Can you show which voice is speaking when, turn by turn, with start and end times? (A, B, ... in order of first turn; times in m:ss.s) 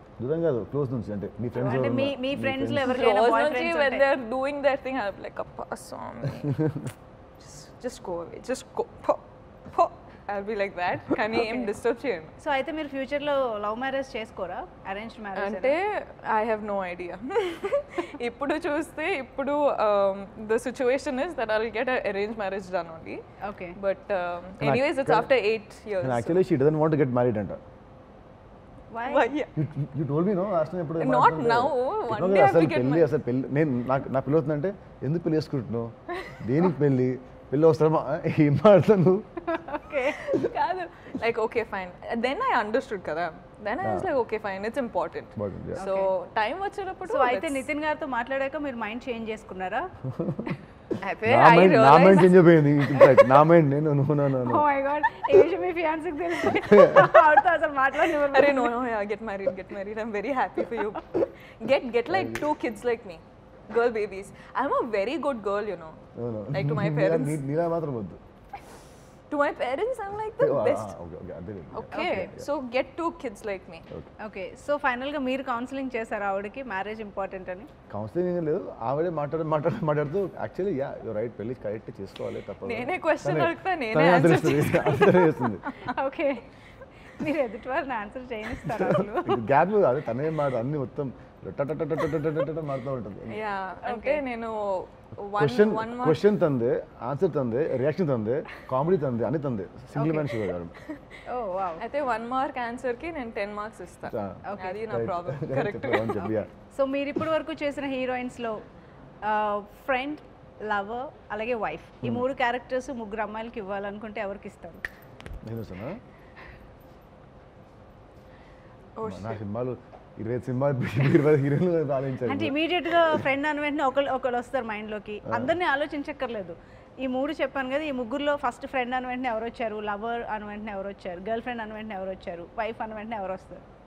0:00.2-0:02.9 A
0:01.6-0:04.1 B
0:02.8-0:06.6 C
0:07.4-0:12.3 C
0:11.3-0:11.7 B
0:12.4-0:15.8 B
0:15.4-0:23.2 C
0:23.4-0:23.8 B
0:23.8-0:26.4 C
0:24.6-0:25.3 A
0:26.0-0:27.6 A
0:28.9-0:29.3 B
0:29.0-0:29.5 C
0:29.6-0:39.2 A
0:31.0-0:33.1 C
0:36.1-0:36.4 C
0:39.5-0:40.2 B
0:40.0-0:47.7 C
0:43.8-0:44.1 A
0:45.4-0:45.8 A
0:45.8-0:46.1 B
0:47.0-0:49.9 B
0:50.2-0:50.4 A
0:51.0-0:52.5 C
0:51.2-0:54.6 A
0:53.0-0:53.4 B
0:54.4-0:58.7 B
0:56.4-0:57.2 A
0:58.0-1:07.4 C
1:02.1-1:02.5 A
1:06.2-1:08.2 A
1:09.3-1:10.9 C
1:10.4-1:12.5 A
1:11.7-1:13.9 C
1:11.9-1:12.3 B
1:14.2-1:17.7 B
1:17.9-1:25.7 A
1:22.6-1:25.9 C
1:25.8-1:26.4 B
1:27.1-1:29.4 B
1:28.6-1:33.4 A
1:33.3-1:36.3 C
1:33.8-1:34.3 B
1:35.4-1:40.8 A
1:40.0-1:40.4 B
1:41.3-1:41.8 B
1:41.8-1:46.4 C
1:44.1-1:46.5 A
1:44.5-1:44.8 B
1:46.7-1:48.6 B
1:49.2-1:54.8 B
1:55.4-1:56.0 A
1:59.0-1:59.4 C
1:59.0-2:03.2 A
2:02.2-2:13.6 B
2:05.3-2:05.6 A